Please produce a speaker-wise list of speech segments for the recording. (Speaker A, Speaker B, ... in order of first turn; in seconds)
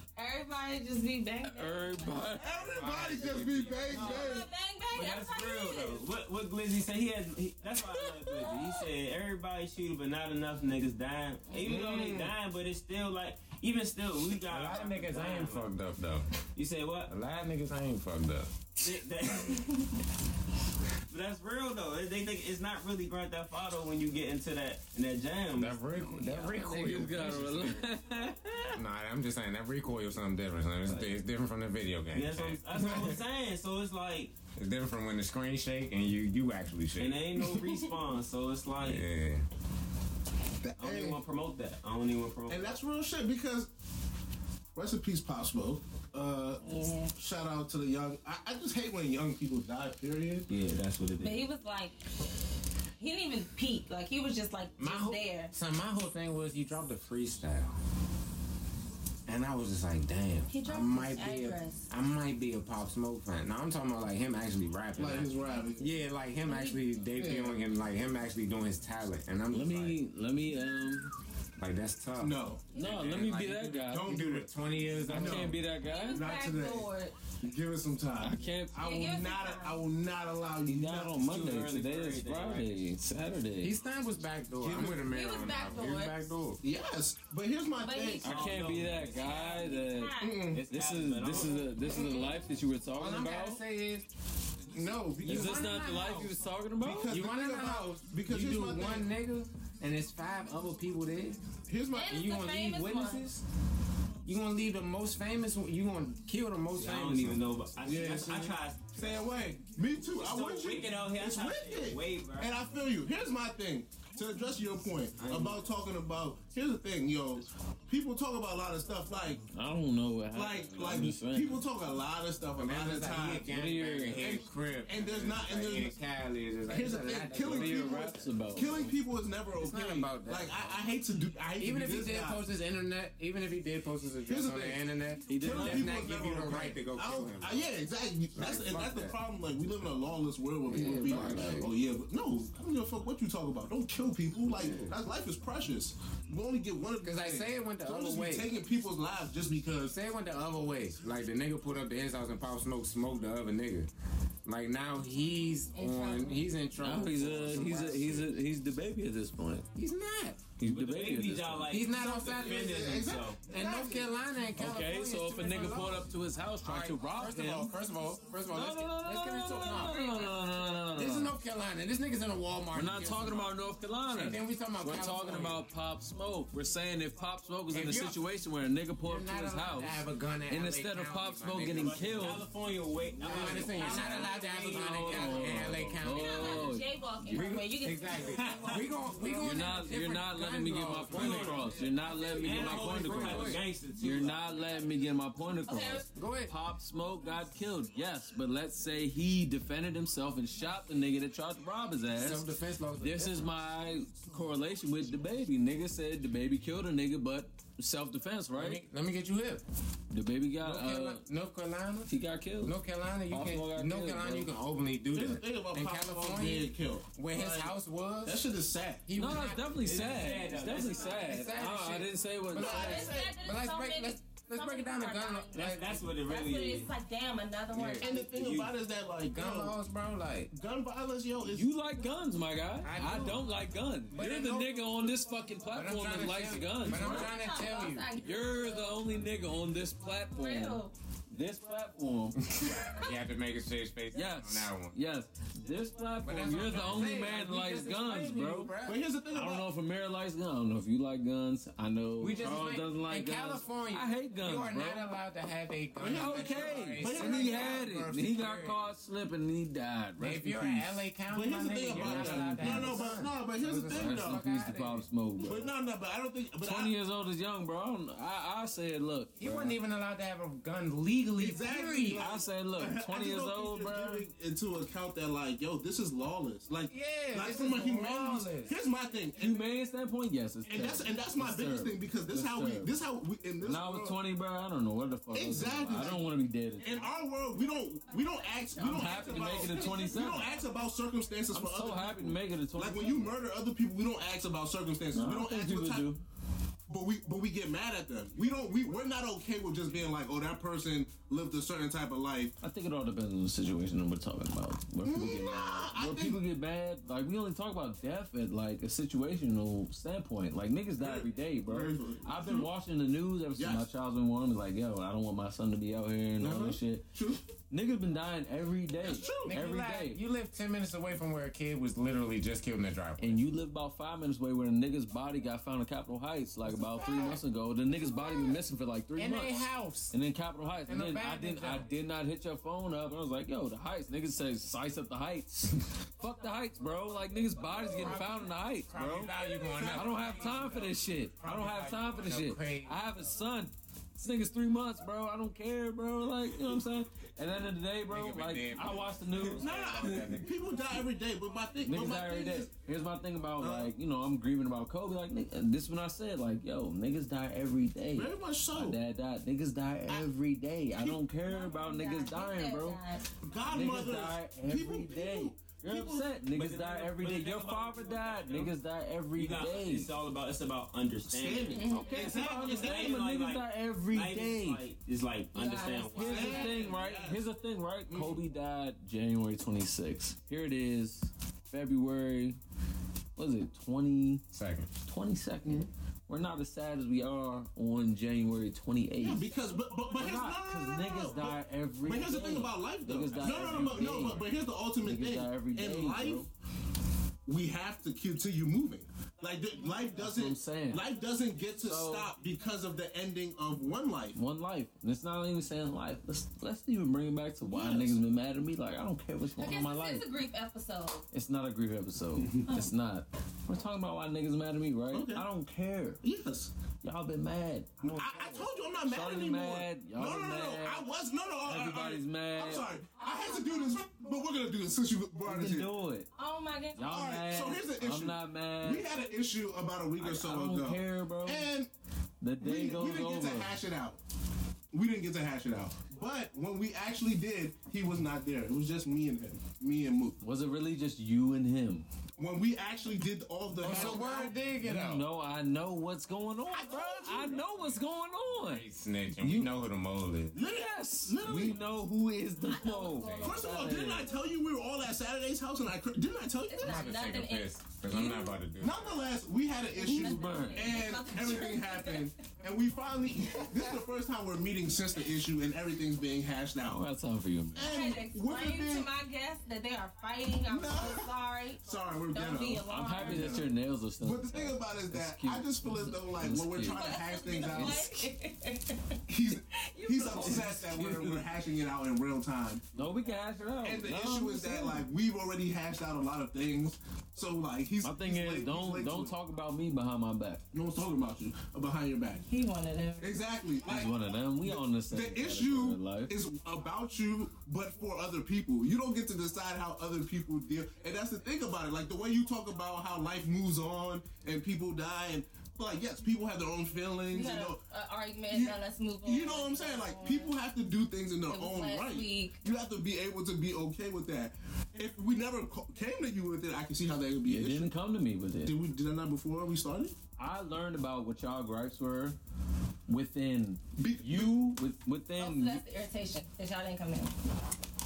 Speaker A: 0.1-2.7, 3.9-6.0, 46.6-47.1, 51.2-52.0, 53.0-55.5, 60.5-61.9, 66.4-66.8, 72.7-73.2, 75.8-77.1, 78.7-79.8, 85.1-86.3, 87.8-88.5, 89.1-90.5, 91.6-92.4, 101.9-103.2, 155.7-156.4, 183.2-184.8, 186.1-189.8, 192.1-192.5, 195.7-196.1, 222.6-228.3, 236.9-239.1, 240.3-240.9, 242.7-243.1, 288.8-290.4, 361.4-363.3, 371.7-372.7, 375.5-376.9, 409.6-411.2, 423.1-424.0, 426.4-427.2, 452.6-454.3, 456.6-458.6, 459.9-462.3, 463.4-463.9, 467.8-473.7, 476.8-480.8, 492.4-493.4, 507.3-510.5, 511.5-512.6, 525.4-527.3
Speaker B: 1.4-2.5, 26.6-28.8, 69.5-71.1, 72.7-74.1, 75.1-76.2, 78.2-78.8, 80.6-83.8, 88.2-93.6, 95.2-97.1, 119.5-121.6, 123.5-124.3, 127.4-128.9, 135.5-135.8, 140.7-141.7, 156.8-159.7, 160.6-161.8, 164.6-167.7, 168.5-171.4, 172.7-182.4, 184.6-186.9, 189.4-202.5, 203.0-208.8, 210.1-211.2, 212.1-212.8, 213.3-214.5, 219.2-223.0, 231.4-237.4, 238.2-242.4, 244.1-248.8, 249.3-255.1, 256.0-261.0, 261.9-265.7, 266.6-269.8, 272.2-274.2, 279.4-282.9, 283.6-287.1, 288.8-290.6, 291.5-293.4, 295.1-296.2, 302.6-317.0, 317.7-320.2, 323.2-350.2, 351.8-363.0, 363.7-370.1, 371.9-374.8, 376.2-382.6, 383.4-384.4, 385.0-389.5, 390.1-394.4, 395.0-396.5, 400.2-401.1, 401.8-402.3, 404.4-410.3, 411.3-416.2, 417.0-418.2, 419.1-421.0, 421.6-422.9, 425.4-426.3, 426.9-429.1, 430.2-431.7, 432.4-433.8, 440.4-442.1, 443.9-448.9, 449.4-449.7, 450.6-454.3, 460.0-461.1, 466.9-468.0, 472.9-478.2, 480.3-481.4, 482.9-485.0, 488.0-490.6, 493.9-496.3, 517.5-518.7, 520.4-522.4, 523.1-525.8
Speaker C: 2.4-4.5, 11.6-12.3, 40.6-41.2, 42.5-43.7, 44.7-50.5, 65.0-65.9, 67.1-67.6, 72.2-72.8, 73.8-74.5, 75.1-76.9, 77.4-81.2, 84.6-85.1, 86.6-88.3, 90.2-90.6, 91.8-92.3, 94.7-95.6, 96.8-99.1, 101.7-102.2, 107.8-119.4, 120.3-123.5, 124.2-125.9, 126.7-132.4, 134.3-134.8, 135.4-150.0, 161.9-164.1, 215.1-217.7, 218.2-219.2, 222.5-223.4, 228.0-229.8, 230.5-231.7, 248.8-249.7, 256.0-257.9, 261.3-264.4, 265.4-266.9, 271.4-279.6, 280.6-284.2, 285.3-296.1, 296.9-302.5, 305.0-306.4, 311.0-312.7, 313.6-313.9, 316.4-317.4, 319.0-319.6, 327.0-327.4, 339.8-340.8, 349.5-352.7, 353.6-353.9, 358.1-359.0, 360.9-361.2, 363.4-366.4, 371.3-373.2, 376.2-377.4, 378.1-378.4, 389.2-396.5, 397.4-404.4, 407.7-408.2, 415.1-415.5, 416.2-416.7, 418.0-425.9, 427.1-431.9, 432.6-434.2, 434.9-440.4, 442.4-444.6, 446.7-447.6, 450.5-451.8, 453.4-457.1, 458.1-467.0, 467.7-469.1, 470.7-473.7, 474.2-478.2, 479.3-483.0, 483.8-489.4, 490.7-492.4, 493.2-507.8, 508.5-517.9, 518.6-520.2, 524.0-524.8
Speaker D: 2.7-4.2, 14.5-16.3, 17.1-18.6, 25.5-27.9, 28.7-33.2, 34.6-37.2, 38.8-39.5, 54.8-57.8, 59.3-70.0, 71.6-75.6, 83.6-86.6, 93.0-94.1, 95.2-96.3, 97.1-101.5, 102.1-103.4, 104.2-108.4, 115.2-115.6, 122.6-128.0, 129.6-130.8, 131.6-137.7, 138.3-139.1, 140.7-141.7, 144.6-144.9, 147.0-148.5, 149.9-153.9, 154.4-158.3, 159.8-160.5, 161.7-166.1, 166.6-173.5, 174.1-175.6, 177.7-178.2, 179.0-182.4, 183.2-193.6, 196.1-196.5, 202.2-203.5, 208.5-209.6, 210.6-212.1, 212.6-218.4, 219.1-220.0, 221.0-226.0, 227.7-228.2, 229.3-230.5, 232.8-233.6, 234.1-234.9, 235.7-238.1, 242.4-245.0, 246.2-249.0, 252.2-258.9, 260.2-265.1, 269.4-272.2, 276.9-278.7, 319.4-323.4, 329.1-330.1, 330.9-331.9, 337.7-343.4, 348.1-350.5, 384.5-384.9, 393.4-394.4, 443.8-445.2, 447.6-450.6, 456.8-459.2
Speaker E: 4.9-15.7, 16.5-17.1, 18.8-19.8, 21.1-26.9, 30.9-31.1, 32.1-34.3, 37.0-39.0, 40.8-42.8, 50.5-51.4, 81.2-82.7, 88.2-89.6, 90.5-91.8, 106.8-109.3, 110.1-112.6, 160.7-163.4, 181.5-185.6, 188.3-188.8, 191.1-191.6, 192.3-194.8, 219.8-221.3, 225.5-226.9, 228.3-228.7, 366.5-368.7, 369.4-371.9, 372.6-376.7